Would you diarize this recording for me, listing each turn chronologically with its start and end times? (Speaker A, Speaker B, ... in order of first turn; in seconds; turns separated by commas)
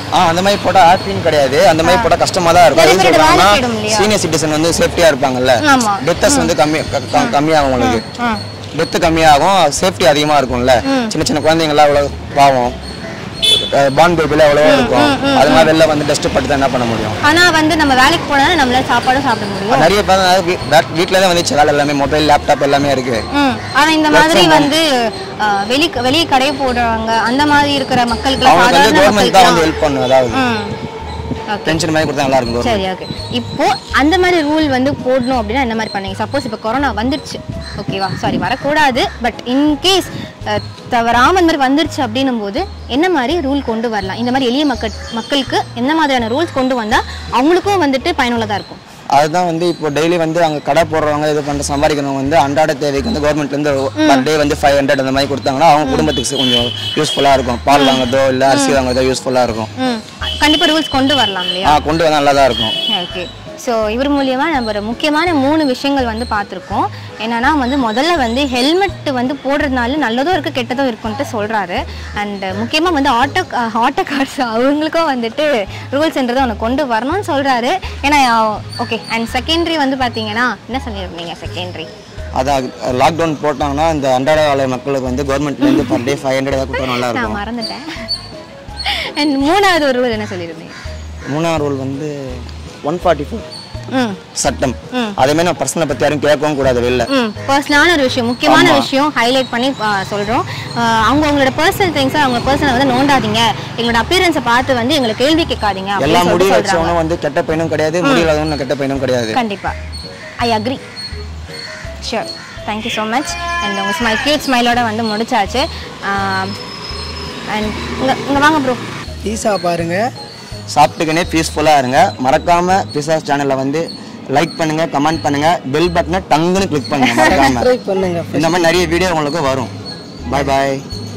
Speaker A: 0.2-8.0, Speaker B: 1.8-2.1, Speaker B: 2.7-4.1, Speaker B: 5.6-6.5, Speaker B: 7.2-8.4, Speaker A: 8.8-12.8, Speaker B: 10.8-11.1, Speaker A: 13.4-17.2, Speaker B: 14.6-15.7, Speaker B: 17.2-19.9, Speaker A: 19.7-23.2, Speaker B: 23.3-29.6, Speaker A: 24.1-24.7, Speaker A: 28.4-30.4, Speaker B: 30.3-30.8, Speaker B: 31.5-31.8, Speaker A: 31.7-32.8, Speaker B: 32.6-48.8, Speaker A: 49.1-59.7, Speaker B: 54.0-54.3, Speaker B: 55.8-56.1, Speaker B: 57.7-58.8, Speaker B: 59.8-61.8, Speaker A: 61.6-62.8, Speaker B: 62.9-81.9, Speaker A: 82.4-87.4, Speaker B: 85.6-86.1, Speaker B: 86.8-87.9, Speaker B: 88.8-90.7, Speaker A: 91.3-93.5, Speaker B: 93.9-94.2, Speaker A: 94.3-97.1, Speaker B: 97.1-107.0, Speaker A: 98.5-98.9, Speaker A: 106.0-109.4, Speaker B: 108.0-108.3, Speaker B: 109.3-109.8, Speaker B: 110.4-110.8, Speaker B: 112.0-116.6, Speaker B: 117.5-118.8, Speaker C: 119.2-120.1, Speaker A: 120.7-123.8, Speaker A: 124.3-127.7, Speaker B: 127.0-127.5, Speaker C: 127.3-128.6, Speaker A: 128.3-129.7, Speaker A: 130.3-130.8